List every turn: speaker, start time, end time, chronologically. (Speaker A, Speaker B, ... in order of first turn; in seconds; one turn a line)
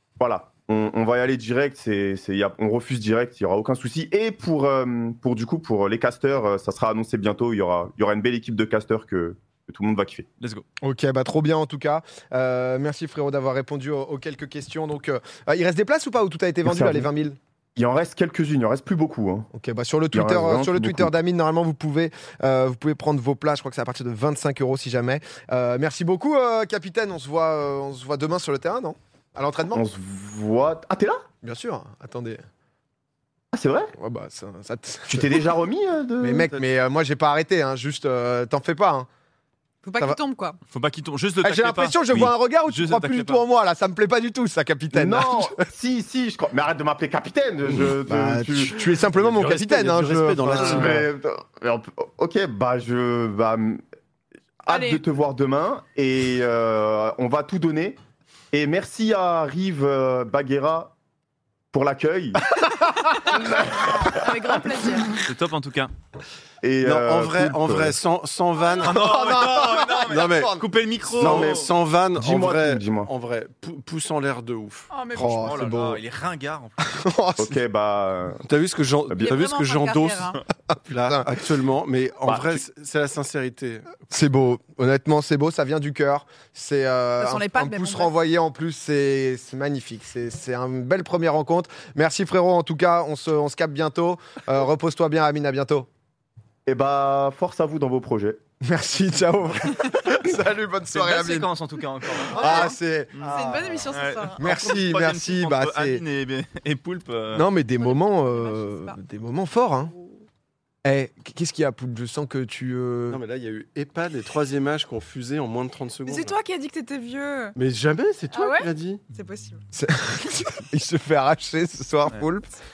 Speaker A: 0.2-10.2
Speaker B: 10.4-10.6
Speaker C: 10.8-17.4
Speaker A: 16.6-17.1
Speaker A: 17.8-19.5
Speaker C: 19.5-29.8
Speaker A: 20.1-21.1
Speaker A: 29.7-31.2
Speaker C: 31.4-32.4
Speaker A: 33.5-33.9
Speaker C: 34.0-35.4
Speaker A: 35.1-36.5
Speaker C: 36.2-39.1
Speaker D: 39.8-40.6
Speaker B: 40.7-43.4
Speaker C: 41.4-45.6
Speaker A: 44.9-48.8
Speaker C: 48.0-51.1
Speaker E: 49.0-51.0
Speaker A: 50.6-53.8
Speaker A: 54.6-58.0
Speaker D: 54.7-55.0
Speaker A: 58.5-60.9
Speaker A: 61.7-62.4
Speaker D: 63.8-65.2
Speaker B: 65.2-65.9
Speaker A: 66.6-68.0
Speaker E: 66.8-69.2
Speaker B: 68.8-71.7
Speaker C: 68.8-70.6
Speaker E: 70.0-70.5
Speaker E: 71.2-74.9
Speaker A: 71.2-71.6
Speaker A: 72.2-73.1
Speaker D: 74.9-75.8
Speaker C: 75.1-76.0
Speaker B: 75.2-76.9
Speaker C: 76.8-77.6
Speaker A: 77.4-78.4
Speaker E: 78.4-83.9
Speaker A: 79.1-79.4
Speaker D: 79.2-80.4
Speaker C: 80.7-81.2
Speaker A: 82.2-82.6
Speaker C: 84.1-95.9
Speaker D: 87.2-88.1
Speaker A: 96.7-98.4
Speaker C: 98.6-101.5
Speaker B: 100.9-107.4
Speaker C: 102.2-103.7
Speaker D: 103.2-104.4
Speaker E: 103.3-103.7
Speaker C: 104.4-106.0
Speaker C: 107.3-109.9
Speaker D: 107.7-109.0
Speaker C: 110.8-113.2
Speaker E: 113.1-116.4
Speaker D: 116.1-117.5
Speaker E: 117.6-119.1
Speaker D: 118.3-119.6
Speaker C: 119.7-122.6